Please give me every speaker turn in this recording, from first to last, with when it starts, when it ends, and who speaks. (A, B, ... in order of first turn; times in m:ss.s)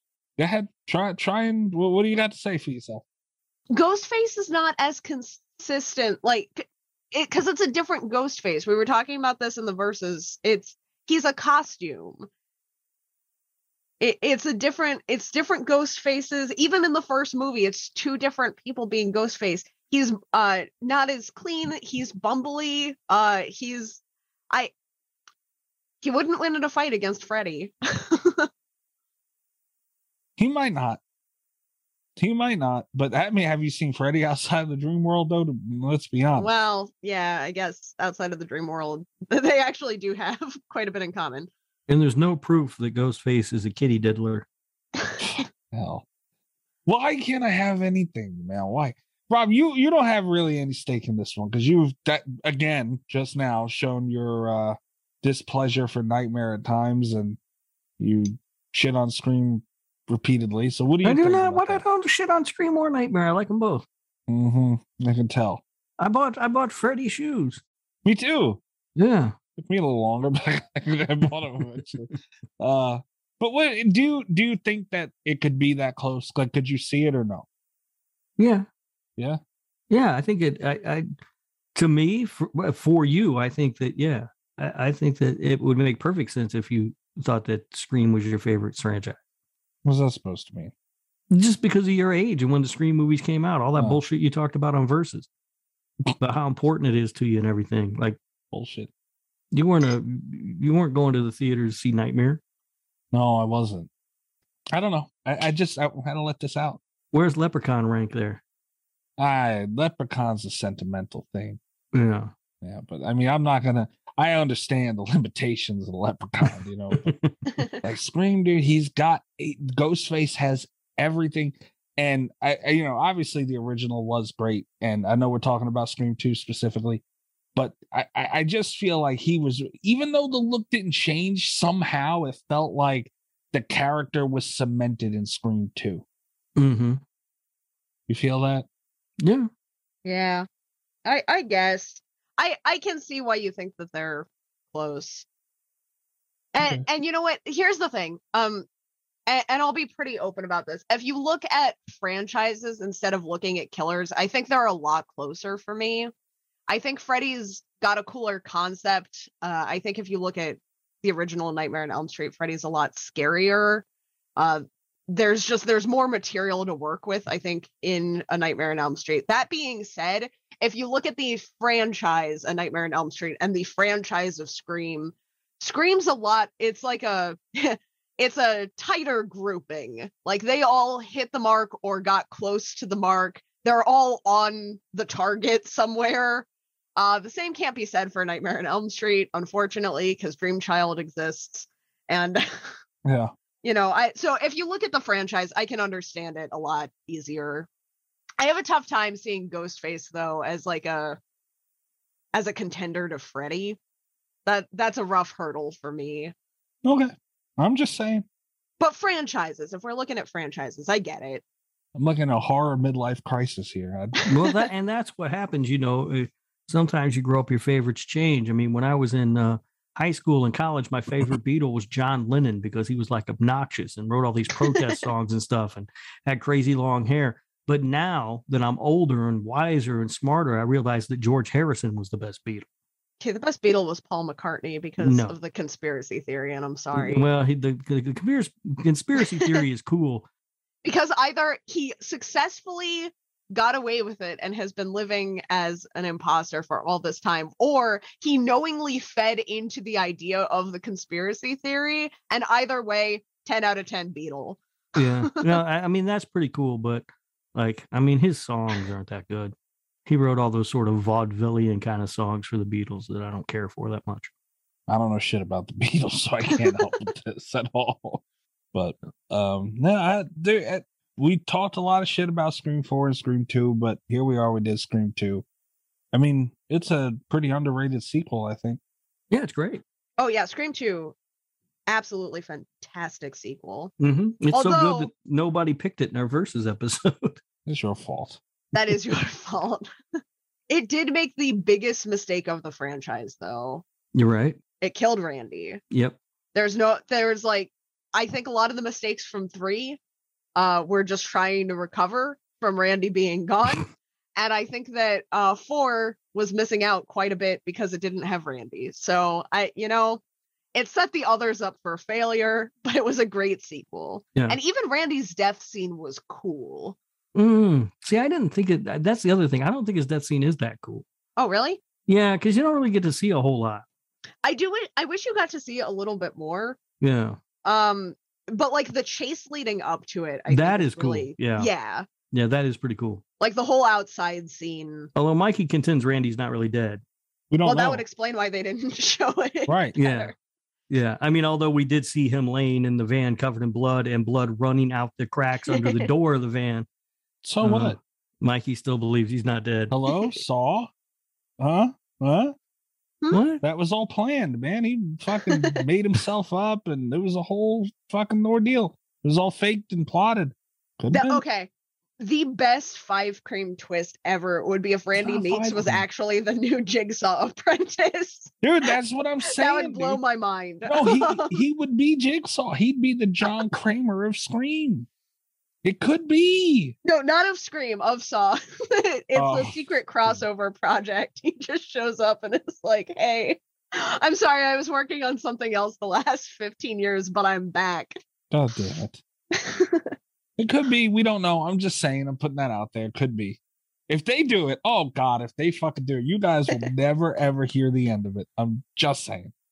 0:00.4-0:03.0 A
0:03.7-0:12.3 B
0:14.0-0:24.7 B
0:26.0-0:28.5 B
0:30.4-0:31.0 A
0:32.2-0:36.5 A
0:36.4-0:41.5 B
0:41.9-0:44.5 C
0:45.2-0:46.0 A
0:46.9-0:57.4 A
0:58.0-1:01.8 A
1:01.0-1:03.9 C
1:04.3-1:05.6 A
1:06.0-1:07.6 C
1:08.0-1:08.6 A
1:09.0-1:09.4 C
1:09.6-1:17.5 A
1:18.4-1:18.7 C
1:19.9-1:21.1 C
1:21.8-1:29.2 C
1:29.8-1:30.7 A
1:31.3-1:35.3 C
1:33.8-1:34.0 A
1:36.2-1:38.2 C
1:38.5-1:38.9 A
1:39.5-1:42.4 C
1:43.1-1:43.9 A
1:44.7-1:46.8 A
1:47.1-1:48.4 C
1:49.2-1:51.6 A
1:51.9-1:52.3 C
1:52.6-1:57.1 A
1:56.9-1:57.3 C
1:57.8-2:07.0 A
2:07.6-2:16.0 A
2:16.6-2:17.0 C
2:18.1-2:18.7 A
2:19.2-2:19.5 C
2:20.0-2:20.4 B
2:21.1-2:25.2 B
2:26.6-2:28.7 B
2:29.3-2:36.1 B
2:36.7-2:43.8 B
2:44.4-3:12.7 B
3:13.0-3:13.3 A
3:13.6-3:17.7 B
3:18.4-3:21.2 B
3:22.3-3:23.8 B
3:24.5-3:26.3 B
3:26.8-3:28.3 A
3:28.8-3:31.4 B
3:32.0-3:34.2 A
3:34.3-3:52.7 C
3:44.6-3:45.0 B
3:53.2-3:57.2 B
3:55.0-3:55.4 C
3:56.9-4:00.3 C
3:59.2-3:59.6 B
4:00.8-4:15.6 B
4:15.0-4:19.5 C
4:20.1-4:24.3 C
4:24.9-4:28.2 A
4:28.7-4:35.4 A
4:36.1-4:38.8 A
4:39.3-4:39.8 C
4:40.2-4:41.2 B
4:41.9-4:43.9 B
4:44.0-4:47.4 C
4:44.5-4:45.1 B
4:47.7-4:48.4 A
4:48.7-4:49.9 B
4:50.7-4:53.8 B
4:54.2-4:54.6 C
4:54.8-4:55.8 B
4:55.9-4:56.2 C
4:56.6-5:00.0 B
5:00.6-5:10.2 B
5:10.8-5:17.0 B
5:17.4-5:21.0 C
5:21.4-5:21.8 B
5:22.1-5:23.8 C
5:24.4-5:26.8 B
5:27.0-5:27.4 C
5:27.6-5:32.1 B
5:30.5-5:31.7 C
5:32.3-5:33.2 C
5:33.4-5:35.1 B
5:35.2-5:37.0 C
5:37.5-5:38.0 A
5:37.6-5:40.3 B
5:39.7-5:39.9 A
5:40.0-5:40.3 C
5:40.9-5:46.9 C
5:45.7-5:46.1 B
5:47.4-5:48.0 A
5:47.6-5:49.9 C
5:49.9-5:50.9 A
5:51.6-5:52.6 A
5:53.3-5:53.6 C
5:53.6-6:01.4 A
5:55.5-5:55.8 B
6:01.1-6:08.5 B
6:05.2-6:06.0 A
6:08.6-6:10.2 A
6:09.5-6:11.6 B
6:10.9-6:15.1 A
6:15.8-6:17.0 A
6:17.0-6:28.2 B
6:19.4-6:19.7 A
6:28.5-6:29.2 A
6:29.5-6:30.1 B
6:30.6-6:39.5 A